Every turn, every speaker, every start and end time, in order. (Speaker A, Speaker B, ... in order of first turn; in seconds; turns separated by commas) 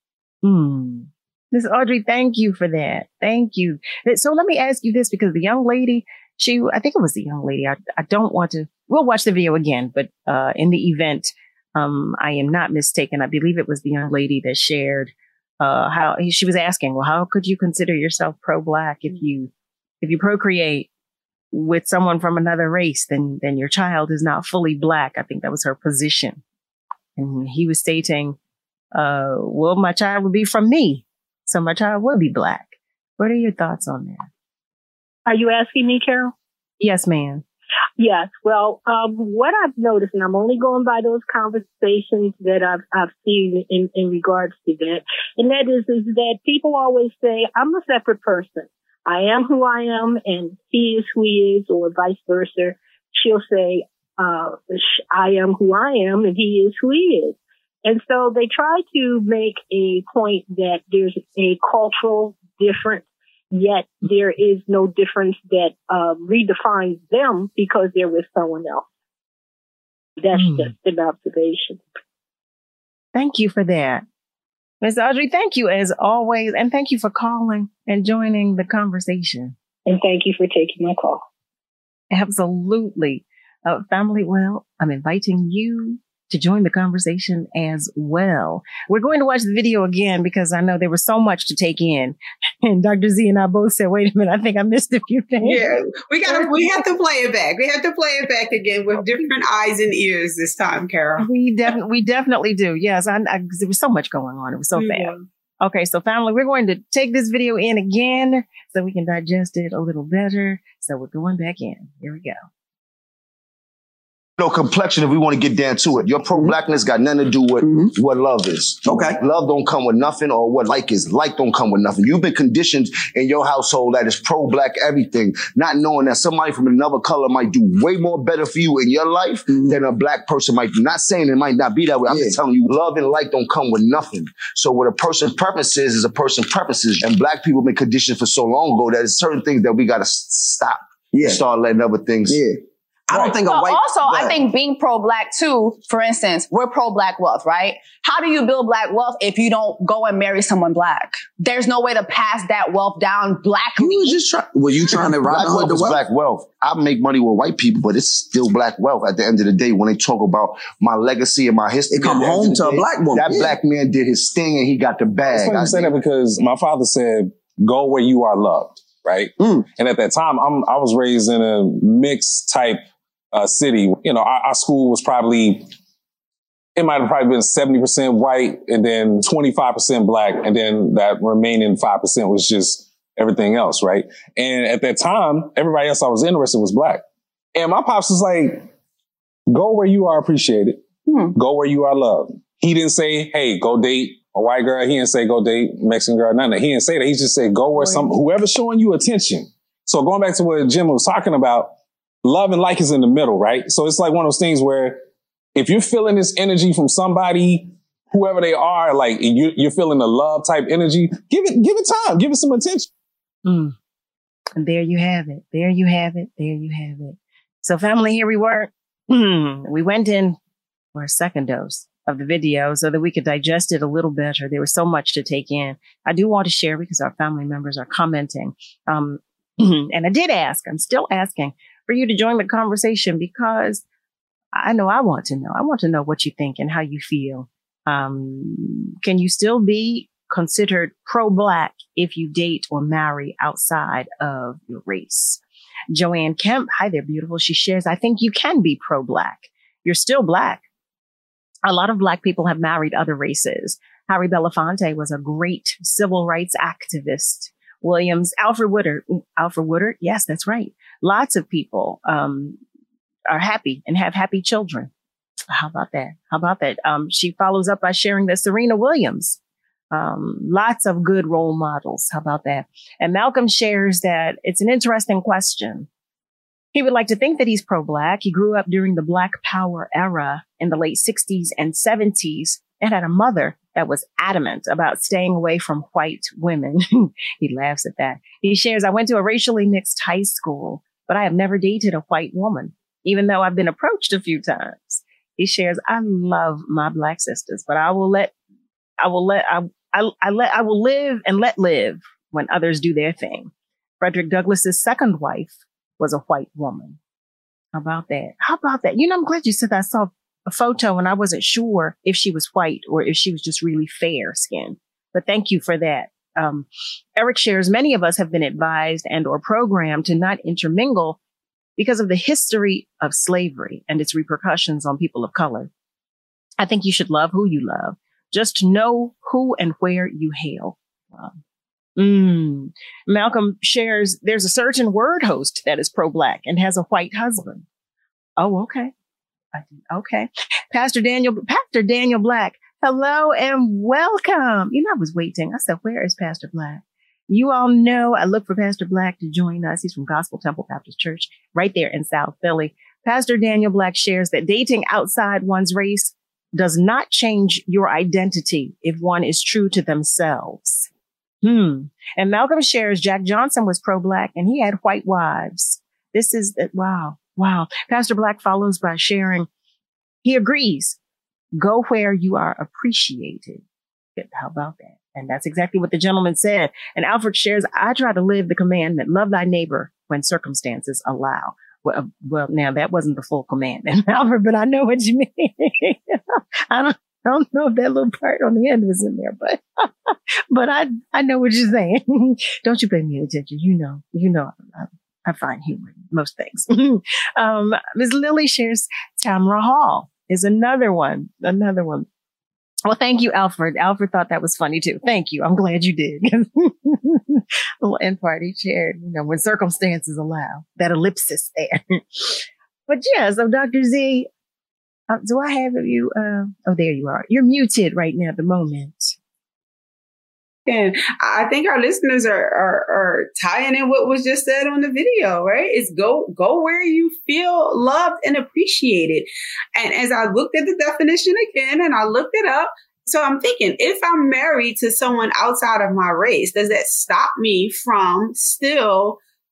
Speaker A: 0.4-20.9, Speaker A: 21.5-26.4, Speaker A: 27.2-28.4, Speaker A: 28.9-34.3, Speaker B: 35.3-36.3, Speaker A: 36.8-37.4, Speaker B: 38.0-68.9, Speaker B: 70.2-71.8, Speaker A: 70.3-70.7, Speaker A: 73.1-74.0, Speaker A: 74.8-79.5, Speaker B: 79.9-81.2, Speaker A: 82.1-96.8, Speaker C: 95.4-101.3, Speaker A: 101.2-112.4, Speaker C: 104.8-105.2, Speaker D: 114.4-142.4, Speaker E: 117.6-117.9, Speaker E: 118.8-119.2, Speaker E: 129.5-129.8, Speaker E: 132.1-132.4, Speaker E: 141.1-141.4, Speaker E: 142.3-142.6, Speaker E: 143.1-144.4, Speaker F: 143.1-154.2, Speaker E: 153.8-156.0, Speaker D: 154.8-165.9, Speaker E: 161.9-163.6, Speaker G: 165.2-172.8, Speaker G: 173.3-175.7, Speaker G: 176.8-187.0, Speaker G: 187.6-188.7, Speaker G: 189.5-190.8, Speaker G: 191.3-201.7, Speaker G: 202.2-205.0, Speaker G: 205.6-212.9, Speaker A: 213.4-213.8, Speaker A: 214.6-220.4, Speaker A: 220.9-233.8, Speaker A: 234.5-250.6, Speaker A: 251.7-262.6, Speaker A: 263.3-264.9, Speaker A: 265.5-269.4, Speaker A: 269.9-275.9, Speaker A: 276.7-298.3, Speaker A: 299.0-307.0, Speaker A: 307.7-321.2, Speaker A: 321.8-325.7, Speaker A: 326.6-331.4, Speaker A: 332.0-337.6, Speaker A: 338.4-338.9, Speaker A: 339.5-360.9, Speaker A: 361.4-369.5, Speaker A: 370.2-371.0, Speaker A: 371.6-373.6, Speaker A: 374.2-402.1, Speaker A: 402.9-414.3, Speaker A: 415.1-419.2, Speaker C: 420.7-439.2